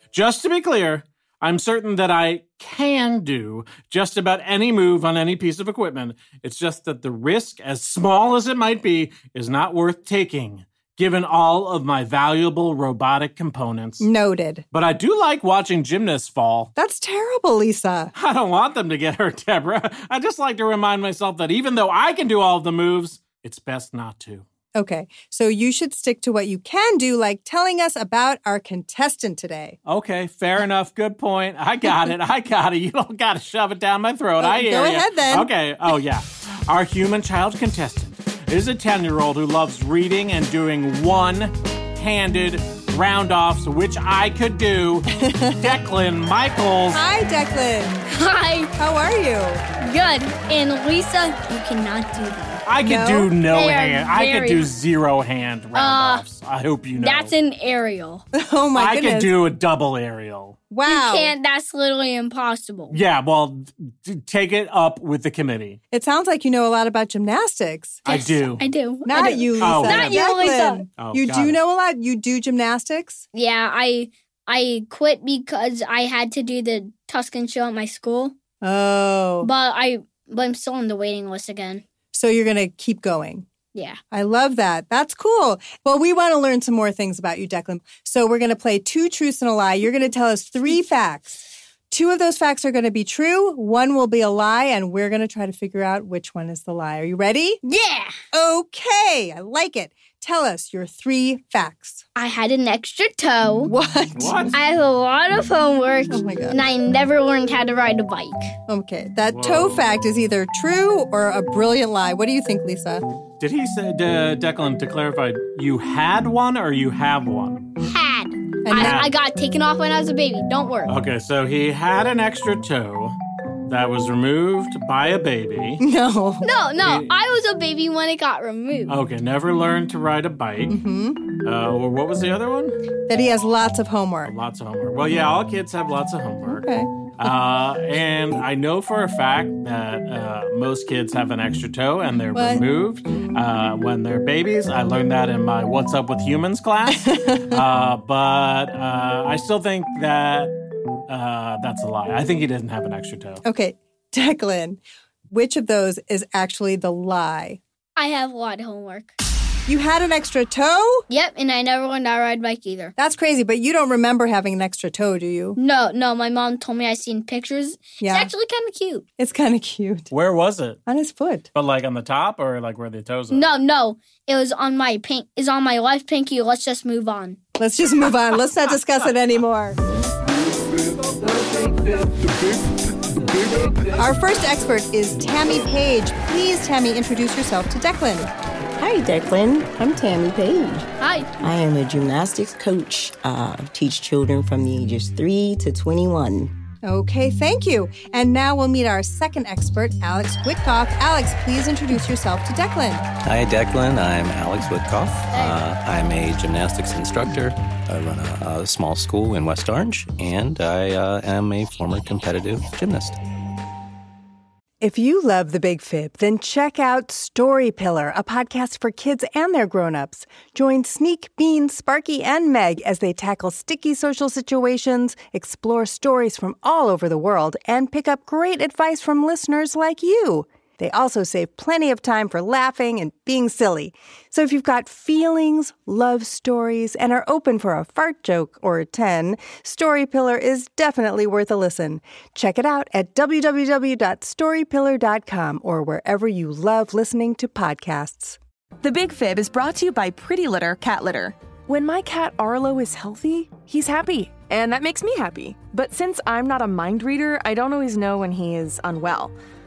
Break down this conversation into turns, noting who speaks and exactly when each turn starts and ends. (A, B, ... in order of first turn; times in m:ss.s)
0:00.1-0:14.1 A
0:14.0-0:14.6 B
0:14.7-0:16.7 A
0:16.8-0:18.1 B
0:18.2-0:24.4 A
0:24.8-0:29.8 B
0:29.9-0:47.0 A
0:34.4-0:35.5 B
0:45.2-0:45.6 B
0:46.9-0:48.0 B
0:48.1-0:48.7 C
0:48.8-0:49.6 B
0:49.8-0:52.6 C
0:52.7-0:57.3 A
0:52.8-0:53.3 B
0:53.5-0:54.7 C
0:55.8-0:56.2 C
0:57.0-0:58.2 C
0:58.4-0:59.3 B
0:58.8-1:00.6 A
1:00.7-1:01.3 B
1:00.9-1:03.0 C
1:02.9-1:05.8 A
1:05.9-1:08.4 B
1:08.0-1:08.6 A
1:08.1-1:10.8 C
1:09.0-1:13.2 B
1:09.6-1:10.2 A
1:11.0-1:11.6 A
1:13.3-1:18.3 C
1:18.6-1:19.5 B
1:19.4-1:21.8 C
1:22.1-1:23.5 B
1:23.7-1:24.0 C
1:24.1-1:37.6 B
1:37.6-1:38.2 C
1:38.3-1:42.0 B
1:42.2-1:43.7 C
1:43.6-1:44.5 B
1:44.2-1:44.5 A
1:44.5-1:48.5 C
1:46.1-1:46.6 B
1:48.7-1:53.0 B
1:49.3-1:49.8 A
1:53.4-1:57.7 A
1:57.9-2:01.0 C
1:58.6-1:59.0 B
1:58.8-1:59.1 A
2:00.9-2:03.2 A
2:03.7-2:05.8 A
2:05.8-2:06.4 B
2:06.4-2:09.0 C
2:06.8-2:07.1 A
2:08.9-2:10.8 A
2:10.7-2:11.2 B
2:11.4-2:12.8 A
2:13.1-2:14.3 B
2:14.2-2:16.7 A
2:16.5-2:16.9 B
2:17.2-2:30.5 A
2:22.3-2:22.6 B
2:26.9-2:27.6 B
2:31.1-2:33.4 A
2:33.4-2:34.8 B
2:35.3-2:37.6 B
2:38.0-2:39.1 C
2:39.7-2:41.0 B
2:41.1-2:42.9 C
2:43.0-2:45.6 B
2:45.6-2:49.0 C
2:48.0-2:48.3 B
2:49.2-2:50.1 B
2:50.1-2:50.8 A
2:50.9-2:51.5 B
2:51.5-2:53.5 A
2:53.3-2:57.4 C
2:57.6-2:59.8 B
3:04.0-3:08.3 B
3:08.8-3:10.9 D
3:11.0-3:11.3 C
3:11.4-3:16.5 D
3:16.8-3:23.1 B
3:23.2-3:33.2 E
3:25.3-3:25.6 C
3:34.8-4:08.4 B
4:08.8-4:19.4 F